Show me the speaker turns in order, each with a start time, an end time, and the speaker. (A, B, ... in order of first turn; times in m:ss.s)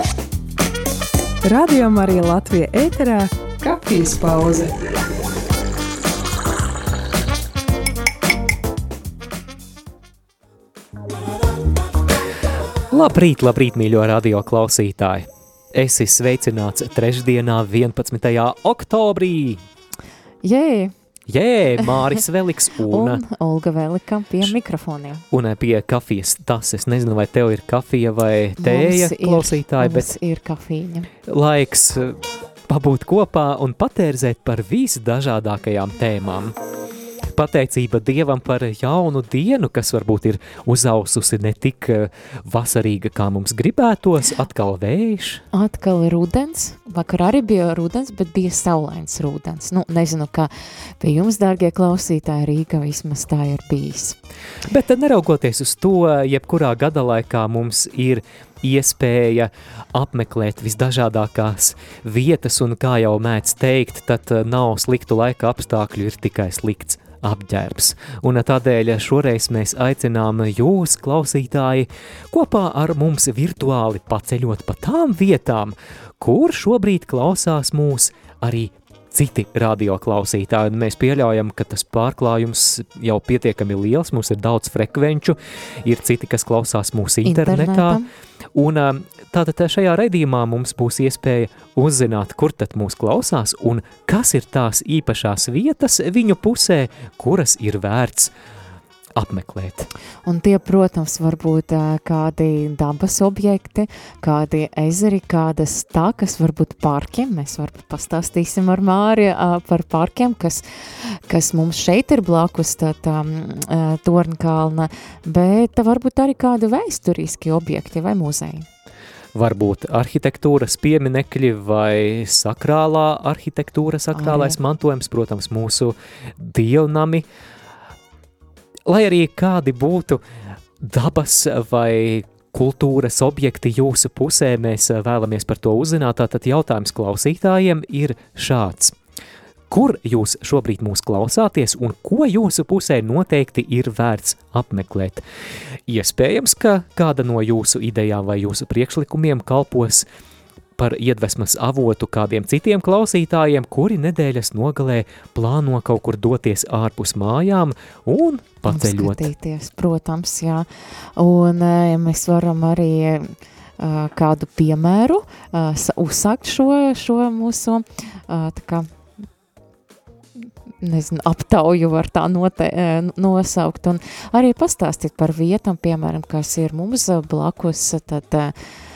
0:01.4-0:04.8 A
0:12.9-0:19.6 B
0:20.4-0:20.9 C
0:21.3-0:23.2 B
0:22.9-0:25.2 C
0:25.3-0:30.1 B
0:28.6-0:31.1 C
0:31.3-0:36.6 B
0:37.2-0:45.4 B
0:45.5-0:54.2 C
0:54.6-1:28.0 B
1:27.2-1:28.1 C
1:28.5-1:38.3 B
1:39.2-1:39.9 B
1:40.3-1:58.7 C
1:59.3-2:07.3 B
2:04.1-2:04.6 C
2:08.9-2:10.2 B
2:10.8-2:19.0 B
2:19.7-2:25.2 B
2:25.9-2:30.1 B
2:30.8-2:39.3 B
2:38.7-2:48.9 C
2:50.8-2:58.5 C